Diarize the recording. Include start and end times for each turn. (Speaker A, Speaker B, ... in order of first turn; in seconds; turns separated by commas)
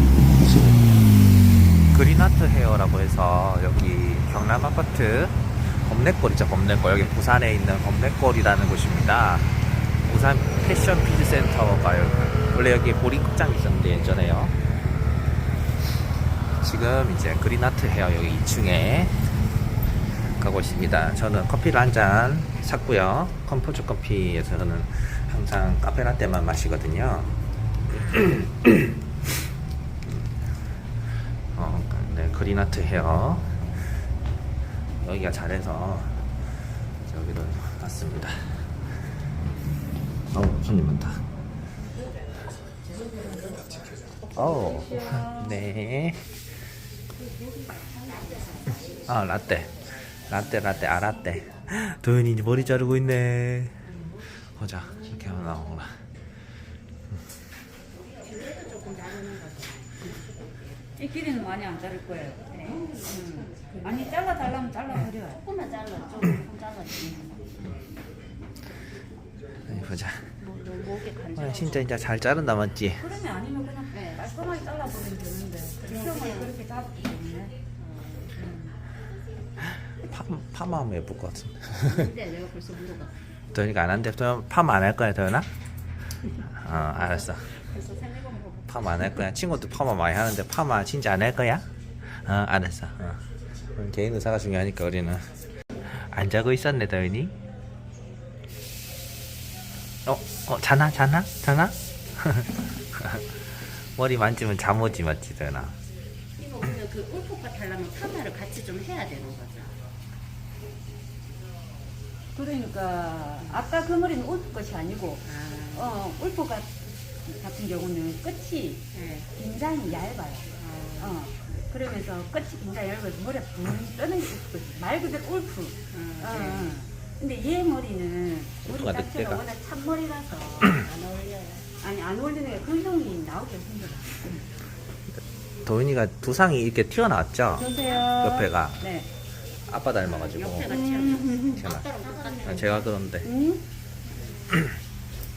Speaker A: 0.4-0.8, Speaker A: 1.9-14.5, Speaker A: 16.6-19.2, Speaker A: 20.4-27.4, Speaker A: 27.9-29.0, Speaker A: 31.5-33.7, Speaker A: 35.0-36.2, Speaker A: 37.0-38.8, Speaker A: 40.3-41.2, Speaker A: 44.3-46.3, Speaker B: 48.1-48.8, Speaker A: 49.1-56.0, Speaker B: 58.2-60.2, Speaker C: 61.0-65.4, Speaker B: 62.5-63.9, Speaker B: 65.3-67.5, Speaker A: 69.7-70.4, Speaker B: 70.4-71.8, Speaker A: 71.3-73.0, Speaker C: 73.0-77.5, Speaker B: 73.9-74.2, Speaker B: 75.8-76.5, Speaker B: 77.8-78.3, Speaker C: 78.4-78.7, Speaker A: 79.6-82.1, Speaker B: 81.9-83.2, Speaker A: 83.5-85.5, Speaker A: 86.3-87.5, Speaker B: 87.7-89.2, Speaker A: 88.7-97.3, Speaker A: 100.0-105.8, Speaker B: 106.4-109.7, Speaker C: 112.3-120.5, Speaker B: 115.2-115.9, Speaker B: 118.9-119.3, Speaker B: 120.6-121.2, Speaker C: 121.0-130.9, Speaker B: 125.9-126.8, Speaker A: 128.6-129.4, Speaker B: 130.7-131.6, Speaker C: 131.8-134.4, Speaker A: 135.6-138.8, Speaker C: 137.5-139.1, Speaker A: 139.7-140.8, Speaker B: 140.0-142.8, Speaker C: 140.7-141.4, Speaker A: 141.4-141.9, Speaker A: 142.4-143.3, Speaker C: 143.2-143.6